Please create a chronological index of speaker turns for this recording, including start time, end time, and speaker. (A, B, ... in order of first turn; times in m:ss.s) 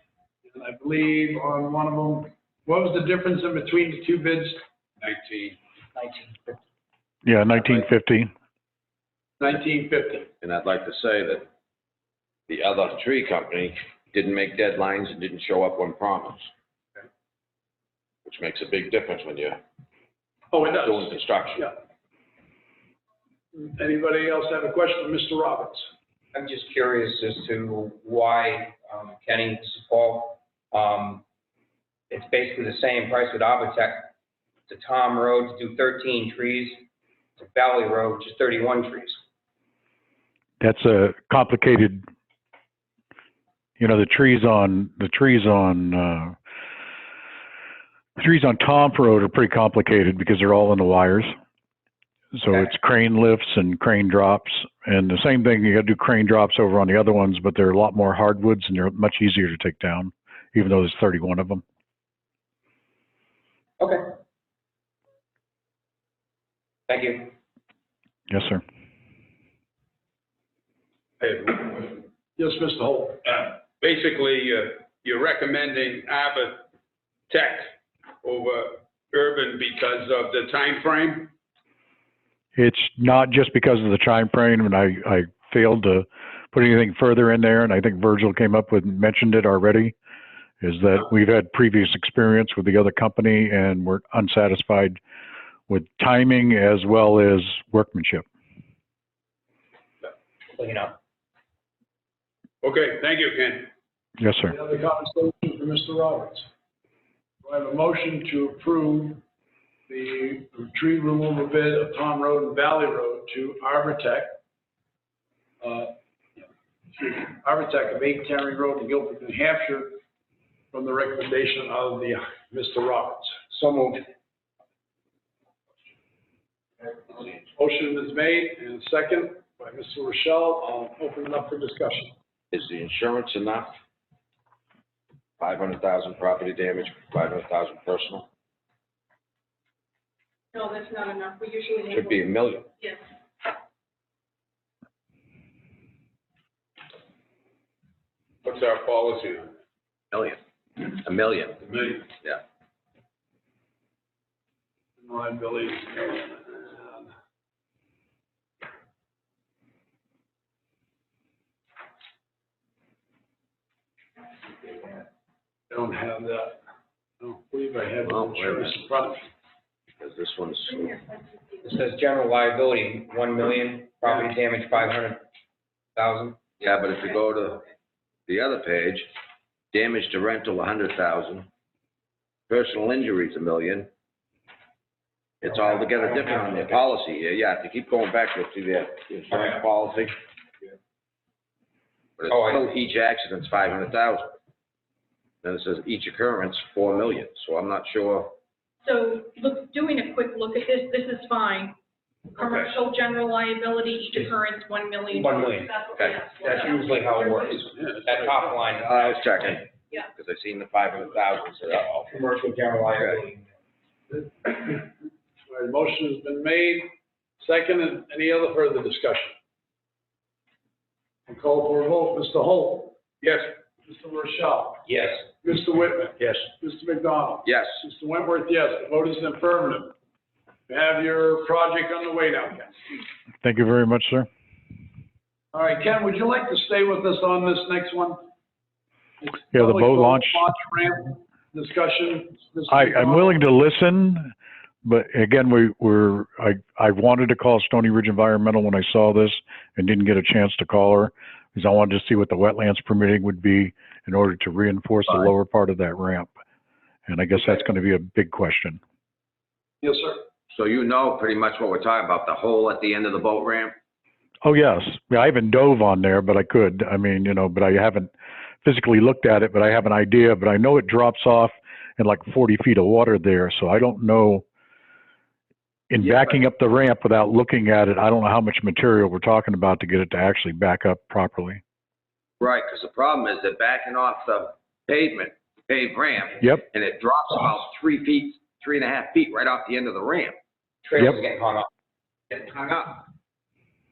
0:00.4-0:04.6 A
0:05.0-0:05.6 B
0:07.2-0:08.3 C
0:09.4-0:10.3 A
0:10.4-0:11.5 D
0:12.5-0:16.5 D
0:18.2-0:19.6 D
0:20.5-0:21.7 A
0:20.7-0:21.7 D
0:23.5-0:25.9 A
0:26.3-0:31.2 E
0:32.1-0:34.1 E
0:34.7-0:36.8 E
0:37.4-0:39.2 E
0:40.6-0:42.0 C
0:43.8-0:46.3 C
0:48.2-0:51.3 C
0:52.3-1:01.6 C
1:03.8-1:04.0 E
1:06.9-1:07.3 E
1:08.3-1:08.6 C
1:11.2-1:12.0 B
1:12.4-1:13.2 A
1:13.2-1:16.6 B
1:17.3-1:21.3 B
1:22.6-1:29.9 C
1:30.6-1:35.0 C
1:35.7-1:38.2 C
1:40.6-1:41.0 E
1:42.6-1:43.7 B
1:44.2-1:44.6 C
1:44.5-1:46.5 A
1:47.4-1:49.2 A
1:49.9-1:54.4 A
1:55.6-2:00.0 A
2:00.7-2:03.4 A
2:03.5-2:04.0 E
2:07.1-2:12.1 A
2:12.5-2:13.7 D
2:15.4-2:18.3 D
2:20.5-2:23.0 F
2:21.9-2:22.6 D
2:28.4-2:29.6 B
2:30.1-2:31.6 D
2:31.6-2:32.0 B
2:35.0-2:37.1 A
2:45.7-2:46.6 A
2:47.2-2:49.3 A
2:48.0-2:48.8 D
2:50.0-2:51.0 D
2:50.9-2:51.7 F
2:51.6-2:55.2 E
2:56.0-2:56.5 E
2:56.6-2:57.6 D
2:58.3-2:59.1 D
2:59.7-3:01.5 D
3:02.5-3:03.9 D
3:05.4-3:10.1 D
3:12.2-3:14.3 D
3:12.3-3:12.6 E
3:15.4-3:18.4 D
3:18.8-3:21.8 F
3:22.3-3:27.6 F
3:25.1-3:25.7 E
3:25.9-3:26.2 D
3:26.3-3:29.3 E
3:27.8-3:28.6 A
3:28.9-3:32.2 D
3:32.0-3:33.5 E
3:32.9-3:33.2 D
3:34.1-3:34.9 A
3:35.4-3:39.3 A
3:41.3-3:43.1 A
3:43.8-3:44.8 A
3:44.8-3:45.2 E
3:45.4-3:49.9 A
3:47.4-3:47.7 D
3:50.7-3:52.8 A
3:53.4-3:54.3 C
3:55.5-3:58.2 A
3:59.2-4:03.4 A
3:59.5-4:00.4 C
4:02.7-4:04.3 C
4:04.8-4:16.3 C
4:17.1-4:18.8 C
4:19.8-4:20.2 A
4:20.5-4:23.7 D
4:24.4-4:28.1 C
4:28.6-4:34.4 C
4:35.9-4:41.6 C
4:36.0-4:36.4 D
4:42.4-4:50.4 D
4:50.8-4:51.7 E
4:52.3-4:53.0 D